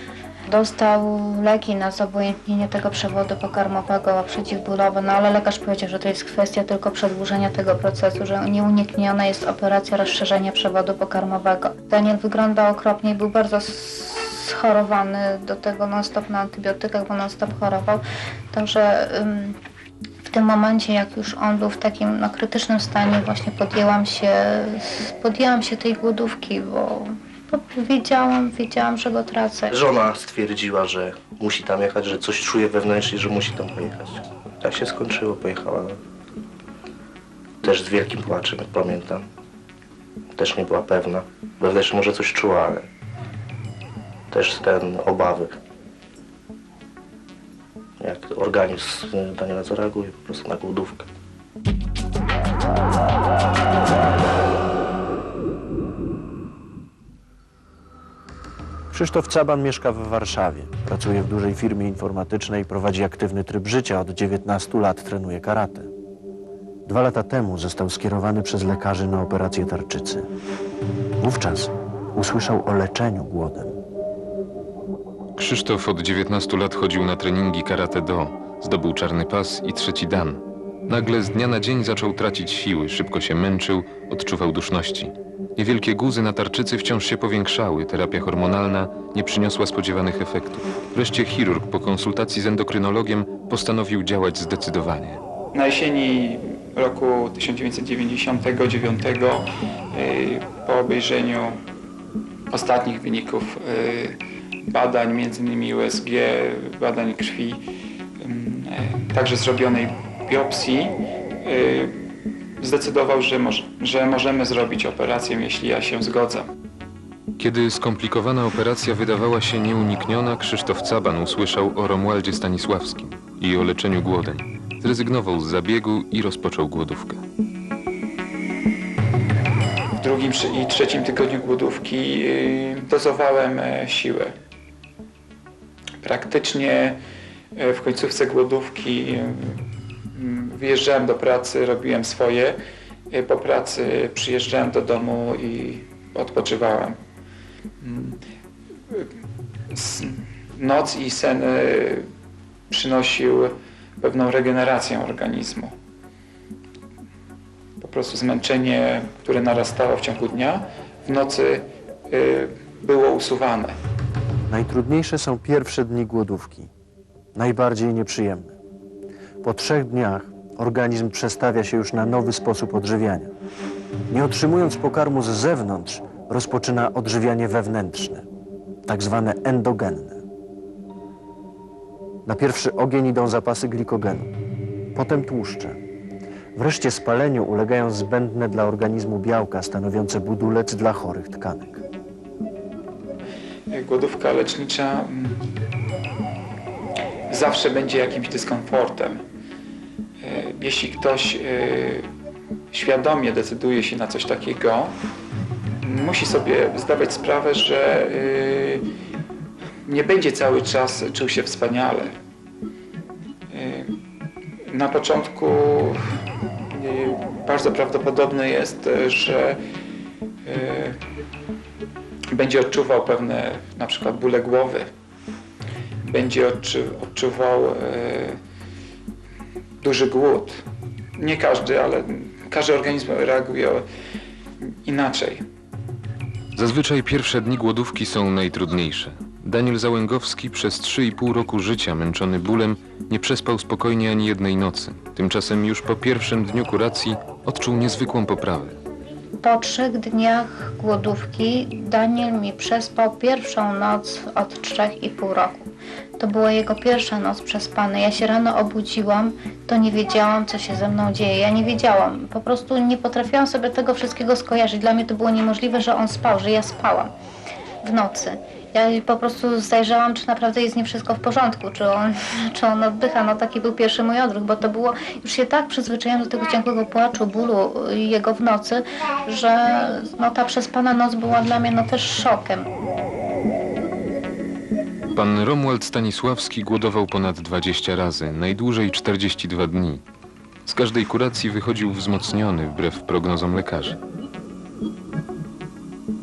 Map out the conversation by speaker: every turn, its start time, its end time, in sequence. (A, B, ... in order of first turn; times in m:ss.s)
0:00.5-0:19.6 A
0:20.2-0:29.8 A
0:29.7-0:36.0 B
0:37.6-0:39.2 B
0:40.3-0:42.9 B
0:44.3-0:45.6 B
0:48.0-0:51.1 B
0:58.9-1:05.9 C
1:06.8-1:10.3 C
1:11.2-1:13.8 C
1:15.4-1:35.2 D
1:35.5-1:41.6 E
1:42.5-1:47.6 E
1:48.2-1:52.0 E
1:52.6-1:56.5 E
1:57.4-2:07.2 D
2:10.0-2:14.3 E
2:16.0-2:17.0 E
2:17.5-2:19.6 E
2:20.1-2:22.6 E
2:23.1-2:27.0 E
2:27.8-2:28.2 E
2:29.7-2:32.1 E
2:32.7-2:35.7 E
2:37.8-2:43.7 E
2:44.5-2:46.7 C
2:47.3-2:48.6 C
2:49.4-2:53.3 C
2:54.1-2:58.2 C
2:58.8-3:00.2 C
3:02.2-3:04.3 C
3:04.9-3:05.8 C
3:06.5-3:11.8 C
3:13.7-3:15.4 E
3:17.3-3:19.2 E
3:20.2-3:22.1 E
3:22.7-3:25.0 E
3:25.8-3:28.9 E
3:29.8-3:32.1 E
3:33.5-3:33.9 E
3:34.7-3:36.2 E
3:36.7-3:39.6 E
3:40.4-3:41.0 E
3:42.3-3:44.9 E
3:46.0-3:48.4 E
3:49.8-3:50.6 E
3:51.2-3:53.8 E
3:54.7-3:55.4 E
3:56.5-4:08.8 D
4:09.4-4:27.1 A
4:27.8-4:42.7 A
4:45.1-4:50.0 D
4:50.6-4:54.0 D